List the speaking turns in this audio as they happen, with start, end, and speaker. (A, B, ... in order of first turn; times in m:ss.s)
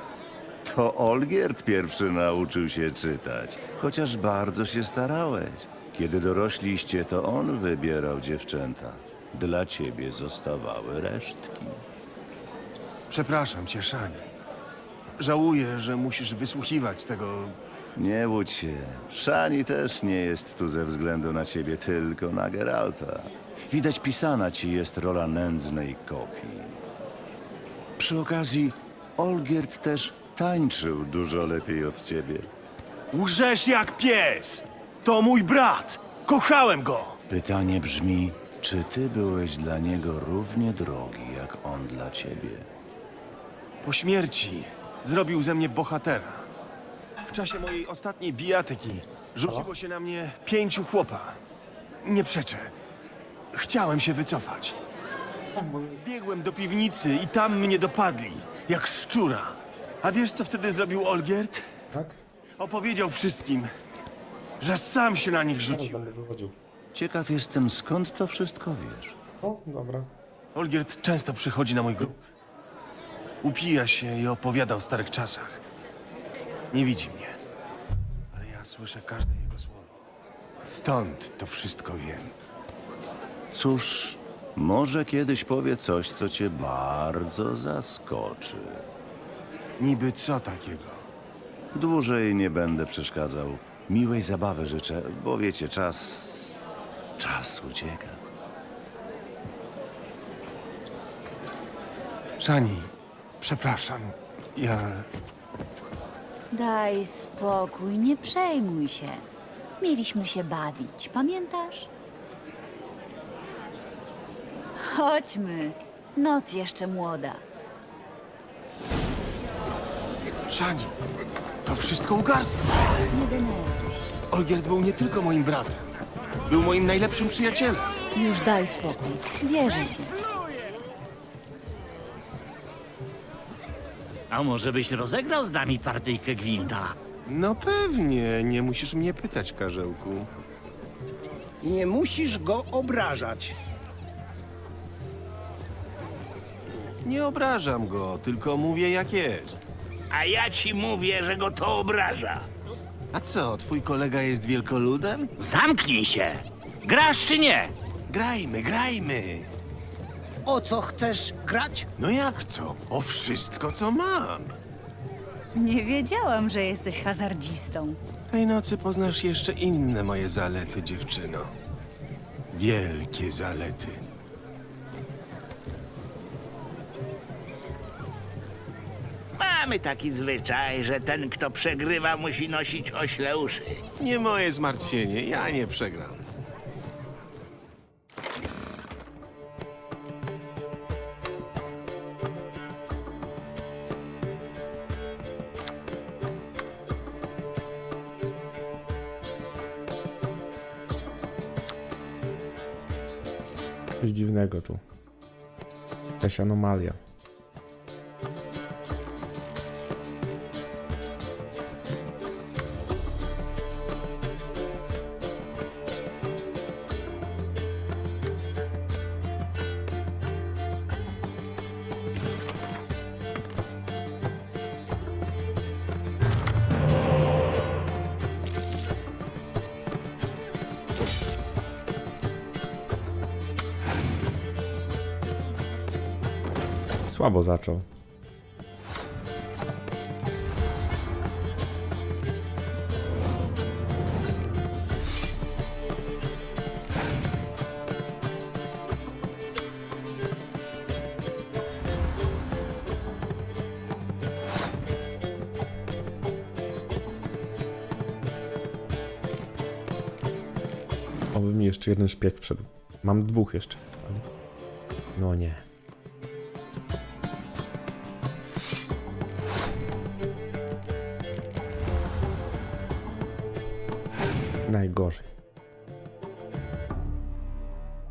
0:00.6-0:11.8 A
0:13.1-0:14.3 B
0:15.2-0:17.6 B
0:17.9-0:26.8 A
0:28.0-0:32.5 A
0:33.1-0:37.2 B
0:37.3-0:42.7 A
0:43.8-0:46.5 B
0:47.2-0:51.4 B
0:52.0-0:52.7 B
0:53.5-0:54.8 B
0:55.6-0:55.9 C
0:55.9-1:01.7 B
1:01.9-1:02.2 C
1:02.6-1:03.7 B
1:04.6-1:06.1 B
1:05.7-1:06.5 C
1:06.9-1:09.2 A
1:09.4-1:10.1 C
1:10.5-1:12.2 B
1:13.4-1:15.6 B
1:16.7-1:17.4 B
1:18.3-1:20.0 B
1:20.6-1:22.3 B
1:23.5-1:28.9 A
1:29.8-1:31.0 B
1:31.7-1:36.6 A
1:37.2-1:38.2 A
1:42.4-1:45.1 B
1:46.5-1:49.2 D
1:49.8-1:51.9 D
1:54.8-1:57.4 D
2:00.5-2:01.0 B
2:01.6-2:02.8 B
2:03.1-2:04.2 D
2:04.3-2:05.8 B
2:06.4-2:07.9 B
2:08.1-2:10.1 D
2:14.3-2:17.0 E
2:17.2-2:20.3 B
2:21.6-2:23.6 F
2:27.0-2:29.6 B
2:30.1-2:32.4 G
2:33.1-2:35.3 B
2:35.4-2:37.7 E
2:38.1-2:39.5 B
2:40.4-2:41.9 F
2:42.0-2:44.6 B
2:45.5-2:48.0 D
2:48.3-2:51.5 B
2:52.5-2:54.0 B
2:59.4-3:03.8 G
3:04.0-3:06.2 B
3:24.0-3:24.8 C
3:26.2-3:27.0 C
3:57.0-3:57.8 C
4:21.3-4:24.2 C
4:25.1-4:25.6 C
4:34.6-4:35.2 C